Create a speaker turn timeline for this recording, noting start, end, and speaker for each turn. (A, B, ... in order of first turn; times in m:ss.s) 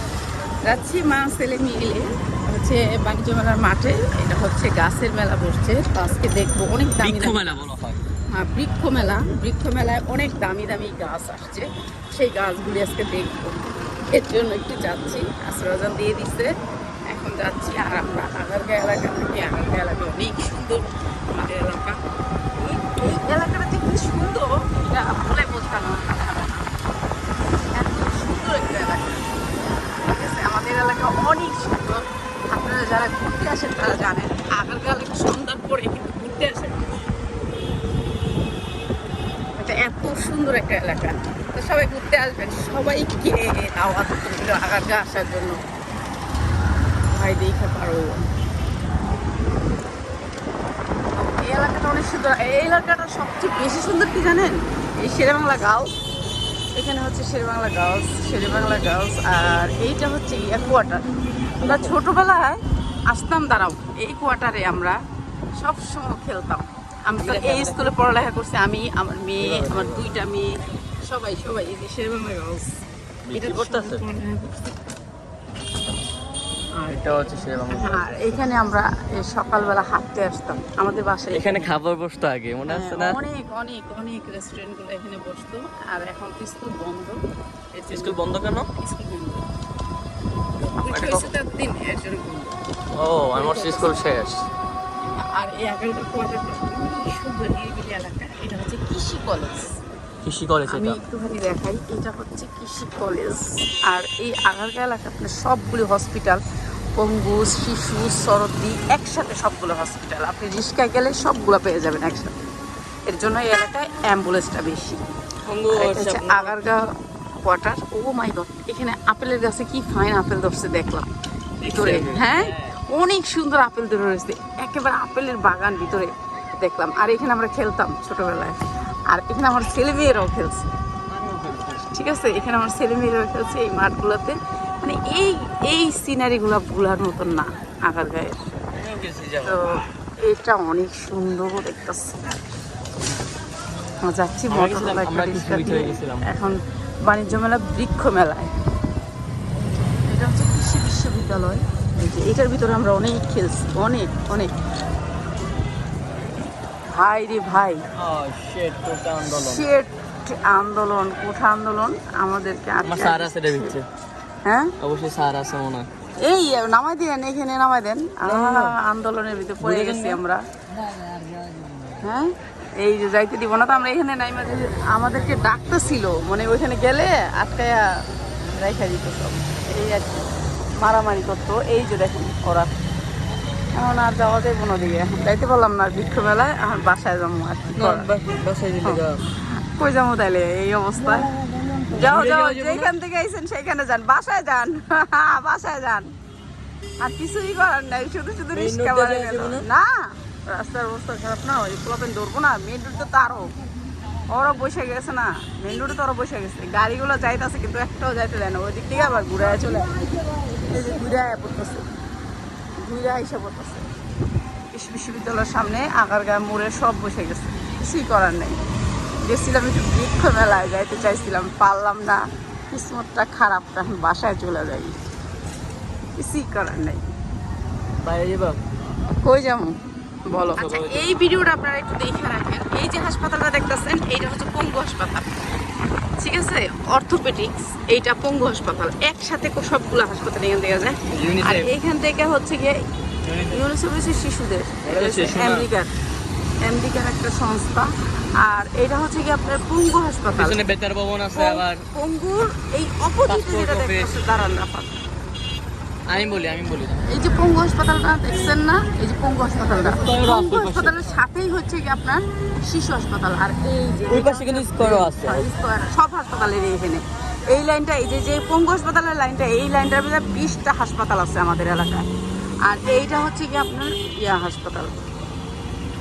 0:00.6-0:07.7 A
0:07.0-0:08.0 B
0:08.3-0:16.5 A
0:17.1-0:22.0 A
0:22.6-0:26.7 A
0:27.8-0:36.9 A
0:39.6-0:45.6 A
0:47.1-0:48.2 A
0:51.2-0:55.9 A
0:56.8-1:01.0 A
1:01.6-1:02.0 B
1:01.6-1:02.6 A
1:03.1-1:05.0 A
1:05.6-1:10.5 A
1:07.2-1:07.9 B
1:09.4-1:10.1 B
1:11.0-1:12.7 A
1:13.3-1:14.0 B
1:13.3-1:14.7 A
1:16.8-1:21.7 A
1:16.9-1:18.4 B
1:21.3-1:23.2 B
1:22.7-1:27.2 A
1:27.8-1:29.5 A
1:27.9-1:28.7 B
1:30.6-1:32.6 A
1:30.9-1:31.3 B
1:33.0-1:34.4 B
1:33.3-1:34.1 A
1:35.2-1:39.7 A
1:40.2-1:41.0 B
1:40.7-1:46.4 A
1:47.0-1:52.4 A
1:53.1-1:55.0 A
1:55.5-1:56.6 B
1:55.7-1:56.8 A
1:57.4-2:01.1 A
2:01.6-2:02.8 B
2:01.7-2:08.6 A
2:09.1-2:10.7 A
2:11.1-2:11.9 B
2:11.9-2:18.4 A
2:18.7-2:19.6 B
2:19.4-2:22.4 A
2:24.0-2:28.5 A
2:24.5-2:26.3 B
2:29.9-2:34.5 A
2:36.9-2:37.8 A
2:38.0-2:39.7 B
2:39.3-2:43.8 A
2:42.8-2:43.8 B
2:44.4-2:44.8 A
2:44.8-2:45.9 B
2:46.2-2:50.4 A
2:48.2-2:48.8 B
2:49.6-2:50.2 B
2:50.8-2:52.0 B
2:52.0-3:00.3 A
3:00.8-3:02.7 A
3:03.8-3:08.1 A
3:07.7-3:09.2 B
3:09.8-3:11.3 A
3:11.0-3:12.9 B
3:11.9-3:16.1 A
3:17.0-3:23.5 A
3:18.5-3:19.6 B
3:24.3-3:30.0 A
3:30.6-3:31.9 A
3:32.8-3:33.9 A
3:34.7-3:38.6 A
3:39.2-3:45.0 A
3:46.2-3:47.0 A
3:48.0-3:48.6 B
3:49.2-3:49.8 A
3:50.3-3:55.3 A
3:50.6-3:51.1 B
3:56.2-4:02.8 A
4:01.1-4:01.7 B
4:03.3-4:03.6 B
4:03.3-4:05.9 A
4:04.8-4:05.7 B
4:06.6-4:10.8 A
4:10.3-4:11.8 B
4:11.3-4:15.0 A
4:13.3-4:14.1 B
4:16.1-4:17.0 B
4:17.1-4:32.1 A
4:19.9-4:21.1 B
4:24.1-4:25.5 B
4:32.6-4:35.0 A